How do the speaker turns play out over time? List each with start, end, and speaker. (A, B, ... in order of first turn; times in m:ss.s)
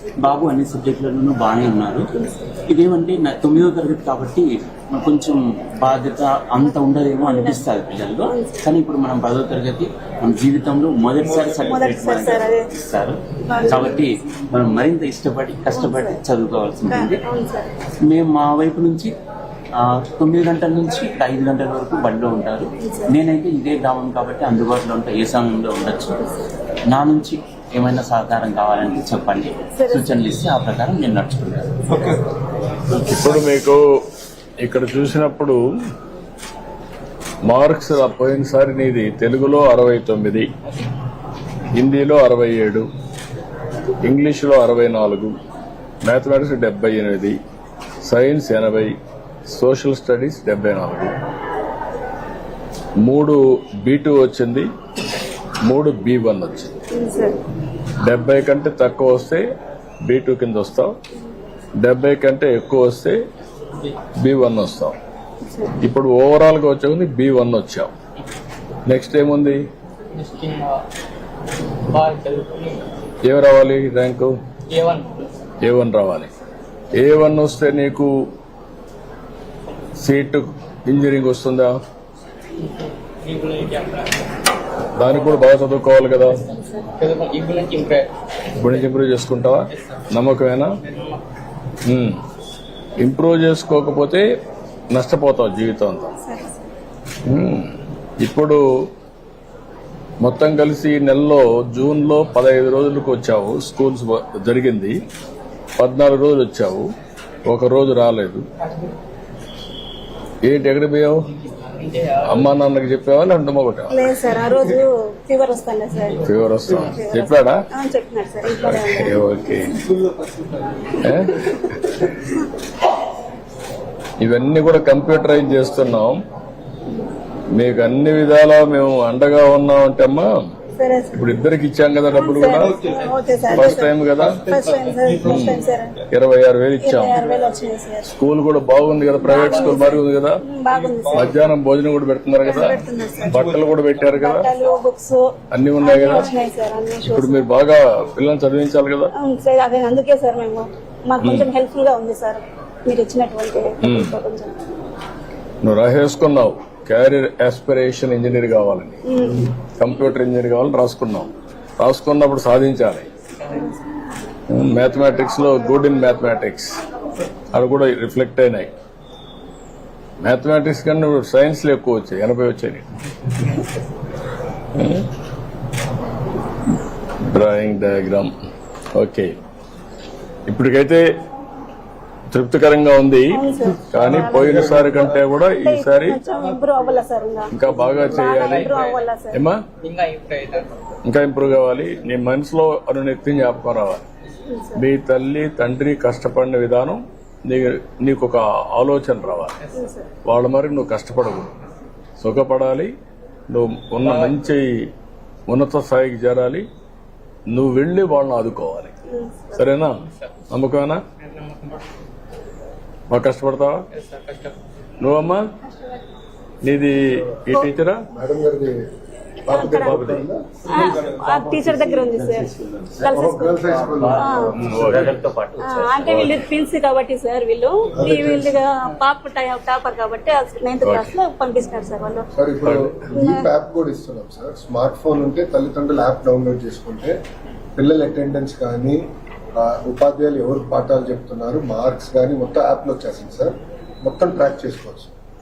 0:00.2-0:02.1 A
0:02.2-0:02.5 B
0:02.7-0:17.2 A
0:06.6-0:07.6 B
0:08.3-0:08.7 B
0:11.2-0:11.8 C
0:11.6-0:12.7 B
0:13.5-0:13.9 B
0:15.7-0:16.2 B
0:16.9-0:17.7 B
0:18.0-0:19.1 A
0:19.8-0:26.2 A
0:22.8-0:23.1 B
0:26.9-0:31.8 A
0:29.8-0:30.0 B
0:31.9-0:32.2 C
0:32.9-0:33.8 D
0:34.6-0:35.6 D
0:37.5-0:40.5 D
0:41.8-0:42.9 D
0:44.0-0:45.3 D
0:46.0-0:47.4 D
0:48.0-0:51.1 D
0:53.0-0:54.7 D
0:55.6-0:56.8 D
0:56.9-0:57.4 B
0:58.0-0:59.4 D
1:00.0-1:01.0 D
1:01.8-1:03.2 D
1:04.2-1:05.0 D
1:05.4-1:05.8 B
1:05.8-1:07.9 D
1:08.9-1:09.6 D
1:10.1-1:10.8 E
1:11.9-1:12.8 E
1:13.2-1:14.3 D
1:14.7-1:15.2 E
1:15.6-1:16.3 D
1:17.0-1:18.1 D
1:20.0-1:21.8 D
1:22.6-1:24.3 E
1:25.0-1:26.4 D
1:27.0-1:28.1 E
1:28.6-1:30.7 D
1:29.7-1:30.1 E
1:30.8-1:31.2 E
1:31.9-1:32.2 D
1:33.0-1:34.2 D
1:34.9-1:36.1 D
1:36.2-1:36.7 B
1:37.3-1:38.6 D
1:40.2-1:45.0 D
1:45.8-1:46.9 D
1:47.5-1:48.4 D
1:50.4-1:51.2 D
1:51.6-1:52.4 E
1:52.2-1:54.0 D
1:53.9-1:59.2 B
1:56.2-1:57.6 D
1:58.5-1:59.7 D
1:59.8-2:01.0 C
2:01.0-2:02.1 D
2:04.2-2:06.2 D
2:07.5-2:10.3 D
2:10.8-2:11.3 B
2:11.2-2:12.8 D
2:12.1-2:16.0 B
2:12.6-2:16.0 C
2:13.5-2:14.4 D
2:15.3-2:15.6 D
2:16.1-2:17.2 D
2:16.8-2:18.1 B
2:18.1-2:20.4 D
2:19.2-2:21.4 B
2:19.3-2:19.8 E
2:20.7-2:21.4 C
2:21.2-2:24.5 D
2:22.4-2:23.4 B
2:23.4-2:24.2 C
2:24.1-2:25.2 B
2:25.5-2:26.3 D
2:25.8-2:27.5 B
2:27.1-2:29.1 D
2:29.2-2:34.6 B
2:31.2-2:31.5 D
2:33.8-2:34.2 D
2:35.6-2:39.0 D
2:39.1-2:39.5 B
2:39.6-2:43.1 D
2:44.5-2:46.8 D
2:47.5-2:48.7 D
2:50.2-2:52.9 D
2:54.8-2:55.1 D
2:57.3-2:58.3 D
2:59.0-2:59.4 D
3:00.5-3:01.0 D
3:02.3-3:06.2 D
3:03.3-3:04.9 B
3:04.0-3:05.2 C
3:05.5-3:09.4 B
3:06.3-3:07.1 C
3:07.5-3:08.7 D
3:07.8-3:08.2 C
3:08.3-3:09.1 E
3:09.3-3:09.6 D
3:09.8-3:10.8 E
3:11.1-3:14.0 D
3:14.5-3:14.9 B
3:14.8-3:19.6 D
3:19.6-3:19.9 E
3:19.7-3:20.2 B
3:20.2-3:21.5 D
3:22.2-3:22.9 D
3:23.5-3:24.9 D
3:24.0-3:24.4 E
3:25.5-3:26.7 D
3:27.5-3:28.9 D
3:29.1-3:29.8 B
3:29.5-3:31.0 D
3:30.1-3:30.3 E
3:31.2-3:31.9 E
3:33.1-3:33.8 D
3:34.0-3:34.6 E
3:35.0-3:35.4 D
3:36.6-3:38.0 D
3:38.1-3:38.8 F
3:39.5-3:40.1 B
3:39.5-3:40.5 F
3:39.9-3:40.2 D
3:40.7-3:42.5 B
3:40.7-3:41.5 C
3:41.6-3:46.3 A
3:43.0-3:43.6 B
3:43.1-3:45.0 F
3:44.2-3:44.6 B
3:44.6-3:45.1 D
3:45.6-3:52.3 B
3:46.1-3:46.4 D
3:48.0-3:48.6 F
3:50.8-3:51.1 D
3:52.4-3:57.2 F
3:52.6-3:53.1 D
3:53.1-3:53.5 B
3:57.8-3:59.0 F
3:59.6-4:05.1 F